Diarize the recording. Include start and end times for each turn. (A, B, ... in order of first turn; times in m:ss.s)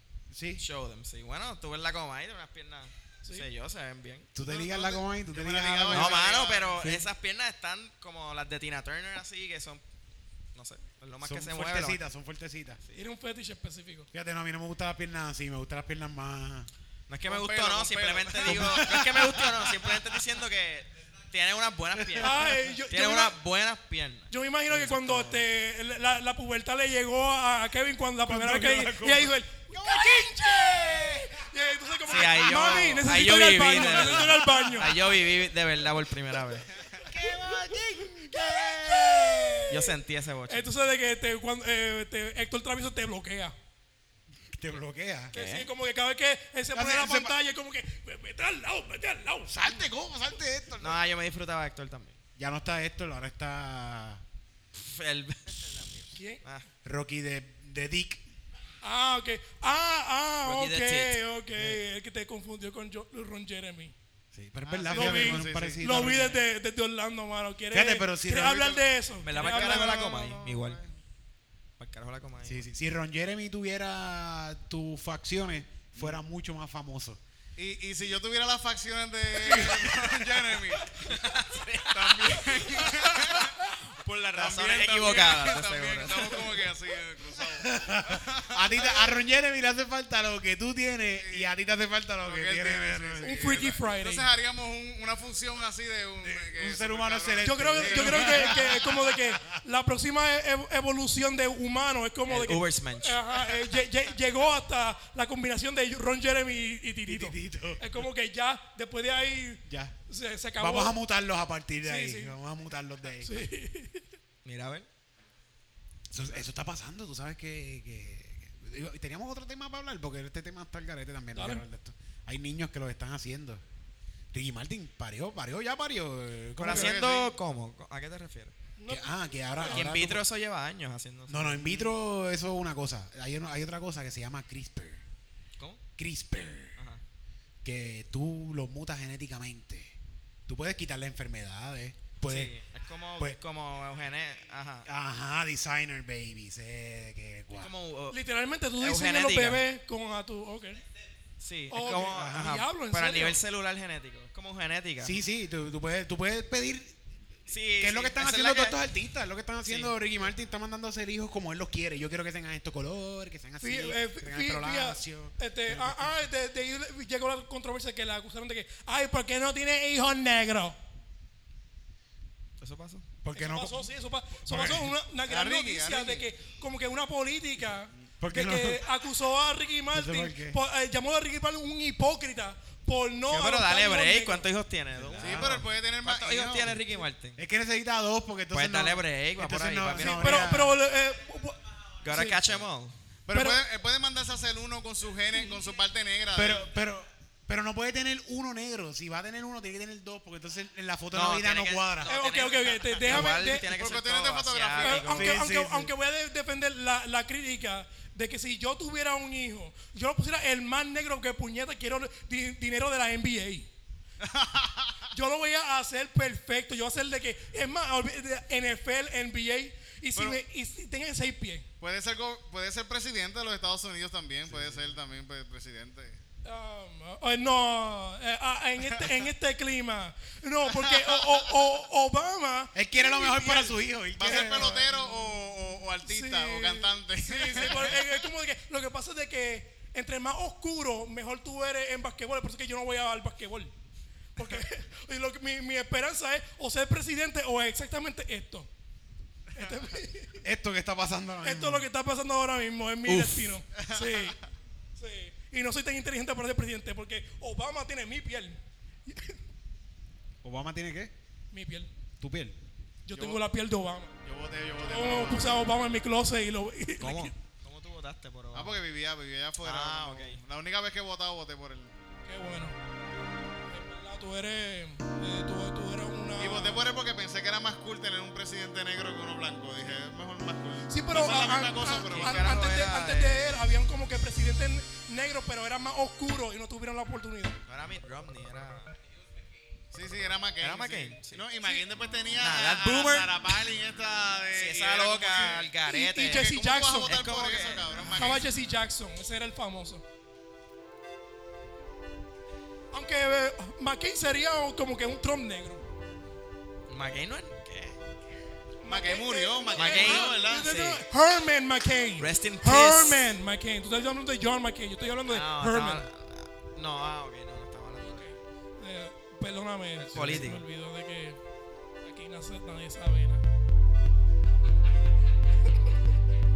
0:00.3-0:00.6 A
0:00.6-0:04.3 B
0:04.4-0:06.3 A
0:04.4-0:06.8 C
0:05.9-0:09.8 B
0:06.8-0:07.1 A
0:10.6-0:12.0 B
0:11.2-0:12.8 A
0:13.0-0:14.1 D
0:14.1-0:16.7 A
0:17.1-0:25.4 B
0:17.3-0:19.0 C
0:18.4-0:20.0 A
0:22.0-0:22.5 A
0:22.2-0:23.4 D
0:24.3-0:35.0 D
0:28.2-0:31.5 A
0:32.1-0:36.7 B
0:32.1-0:35.1 A
0:37.0-0:39.9 A
0:38.8-0:39.7 D
0:39.7-0:40.7 B
0:40.5-0:43.6 D
0:44.5-0:45.4 A
0:45.3-0:45.7 B
0:45.3-0:49.8 D
0:46.7-0:47.4 A
0:49.5-0:51.0 A
0:50.8-0:52.2 B
0:52.4-0:54.2 A
0:54.8-0:56.7 B
0:56.2-0:56.4 D
0:56.8-0:58.2 A
0:58.8-1:03.9 D
1:00.4-1:01.2 B
1:04.3-1:06.4 A
1:04.7-1:05.8 C
1:04.9-1:10.1 D
1:07.7-1:08.8 A
1:09.2-1:10.8 B
1:09.3-1:10.9 C
1:11.8-1:12.7 B
1:12.4-1:17.2 A
1:17.6-1:21.0 C
1:19.3-1:20.7 A
1:21.0-1:23.3 B
1:21.9-1:29.2 C
1:24.0-1:26.7 B
1:27.5-1:33.7 A
1:31.2-1:31.5 C
1:32.2-1:38.8 C
1:33.2-1:34.3 D
1:36.2-1:39.6 A
1:37.4-1:51.0 D
1:42.3-1:43.2 B
1:47.1-1:47.9 A
1:49.7-1:50.0 A
1:50.6-1:53.4 A
1:51.8-1:52.4 D
1:53.2-1:54.1 D
1:54.4-1:54.9 B
1:56.1-2:03.6 A
2:01.4-2:01.6 D
2:04.3-2:07.0 A
2:06.6-2:08.6 B
2:06.6-2:07.3 C
2:08.8-2:09.9 D
2:08.9-2:10.2 A
2:09.7-2:11.9 B
2:11.3-2:15.0 A
2:16.0-2:16.8 A
2:16.8-2:17.0 B
2:17.6-2:20.0 A
2:20.5-2:22.5 A
2:22.2-2:24.9 B
2:24.8-2:27.7 A
2:27.5-2:28.2 B
2:28.1-2:30.8 D
2:28.8-2:29.6 B
2:31.4-2:35.2 B
2:31.7-2:33.4 D
2:31.9-2:32.6 A
2:35.0-2:37.0 A
2:37.5-2:38.8 B
2:37.8-2:46.1 A
2:39.6-2:39.9 B
2:43.6-2:50.8 D
2:52.6-2:53.1 B
2:53.2-2:53.9 A
2:53.3-3:04.5 D
2:54.5-2:54.9 A
2:55.3-2:56.3 C
2:58.2-2:58.8 A
2:59.9-3:00.6 A
3:03.3-3:07.4 B
3:05.0-3:05.6 A
3:05.2-3:06.8 C
3:07.4-3:10.8 A
3:08.5-3:10.5 B
3:10.0-3:11.6 D
3:12.0-3:13.0 B
3:12.1-3:12.4 D
3:13.3-3:16.7 C
3:13.3-3:13.6 D
3:16.3-3:22.2 A
3:21.1-3:25.4 B
3:22.1-3:23.7 D
3:23.1-3:25.1 C
3:24.8-3:33.7 D
3:25.1-3:25.9 A
3:34.2-3:35.0 C
3:35.1-3:41.7 D
3:40.2-3:40.4 C
3:41.8-3:46.2 C
3:44.5-3:45.0 A
3:46.4-3:55.2 D
3:50.7-3:51.4 C
3:52.7-3:54.9 A
3:54.2-3:58.1 C
3:56.0-4:03.7 D
4:04.4-4:08.7 D
4:09.5-4:10.4 D
4:10.4-4:11.9 A
4:11.4-4:14.4 D
4:13.1-4:13.5 B
4:13.7-4:14.4 C
4:15.0-4:19.4 D
4:20.4-4:21.1 A
4:21.5-4:21.9 D
4:22.2-4:22.6 A
4:23.1-4:24.2 D
4:23.1-4:23.4 C
4:24.2-4:25.6 C
4:24.8-4:27.3 D
4:27.0-4:28.8 B
4:28.5-4:31.9 C
4:29.6-4:30.4 B
4:32.3-4:32.8 D
4:33.7-4:36.8 D
4:36.4-4:42.7 C
4:40.9-4:47.6 D
4:42.1-4:43.6 B
4:47.7-4:49.0 B
4:49.9-4:58.5 C
4:50.6-4:51.8 B
4:52.4-4:53.5 B
4:54.5-4:58.4 B
4:55.8-4:57.2 D
4:58.0-5:00.0 D
5:02.9-5:05.9 D
5:06.9-5:08.0 B
5:08.8-5:16.1 D
5:08.9-5:10.7 C
5:09.8-5:11.0 B
5:12.2-5:13.2 B
5:15.3-5:18.3 B
5:18.0-5:21.4 D
5:20.0-5:20.6 B
5:20.1-5:20.4 A
5:22.0-5:23.4 D